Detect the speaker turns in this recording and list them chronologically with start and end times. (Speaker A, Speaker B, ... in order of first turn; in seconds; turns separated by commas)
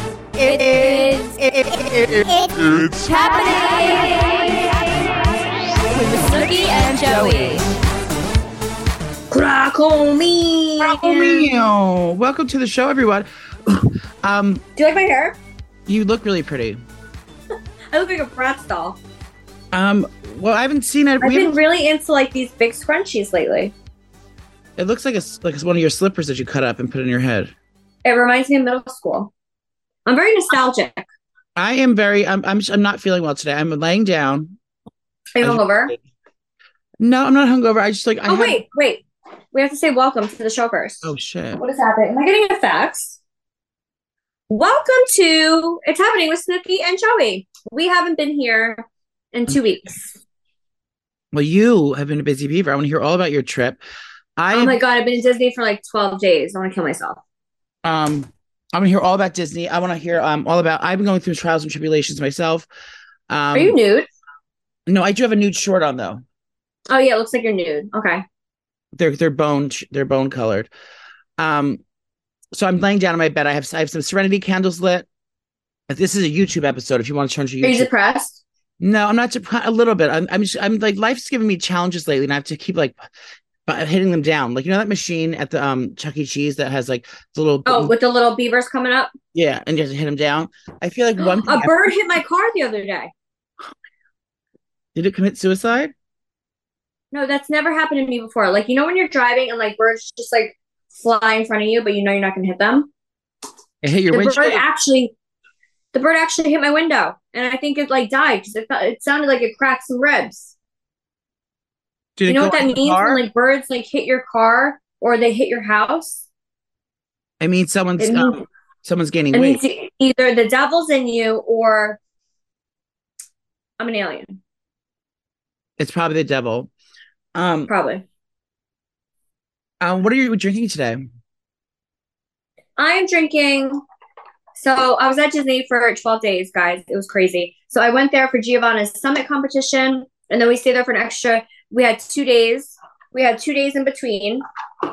Speaker A: 0.4-2.0, Speaker A: 2.6-4.7, Speaker A: 5.9-7.7, Speaker B: 9.3-11.5, Speaker C: 10.8-14.6, Speaker B: 14.8-15.4, Speaker C: 15.9-16.8, Speaker B: 17.9-19.0, Speaker C: 19.7-21.6, Speaker B: 21.2-23.7, Speaker C: 24.8-27.5, Speaker B: 28.0-29.3, Speaker B: 30.1-31.1, Speaker C: 31.6-34.5, Speaker B: 35.3-35.9, Speaker C: 35.4-36.0, Speaker C: 37.0-38.6, Speaker B: 38.2-43.2, Speaker C: 41.0-41.6, Speaker B: 44.5-50.1, Speaker C: 51.3-53.8, Speaker C: 54.4-54.8, Speaker B: 54.5-57.2, Speaker C: 57.8-62.7, Speaker C: 63.3-63.8, Speaker B: 63.5-64.1, Speaker C: 64.9-66.2, Speaker B: 66.9-68.2, Speaker C: 68.9-70.7, Speaker C: 71.4-71.8, Speaker C: 72.5-75.1, Speaker C: 75.9-77.9, Speaker B: 77.6-78.4, Speaker C: 78.8-83.0, Speaker C: 83.7-87.9, Speaker B: 87.7-89.1, Speaker C: 89.3-91.9, Speaker B: 91.2-93.1, Speaker C: 94.9-95.9, Speaker B: 97.1-102.9, Speaker C: 103.8-104.6, Speaker B: 104.1-105.1, Speaker B: 105.9-110.5, Speaker C: 112.2-113.2, Speaker B: 112.2-116.2, Speaker C: 117.4-119.6, Speaker B: 118.0-118.4, Speaker B: 119.3-122.0, Speaker B: 123.8-124.4, Speaker C: 125.8-126.7, Speaker C: 127.3-127.7, Speaker B: 127.7-128.0, Speaker C: 129.8-131.0, Speaker B: 132.8-133.8, Speaker B: 134.5-144.4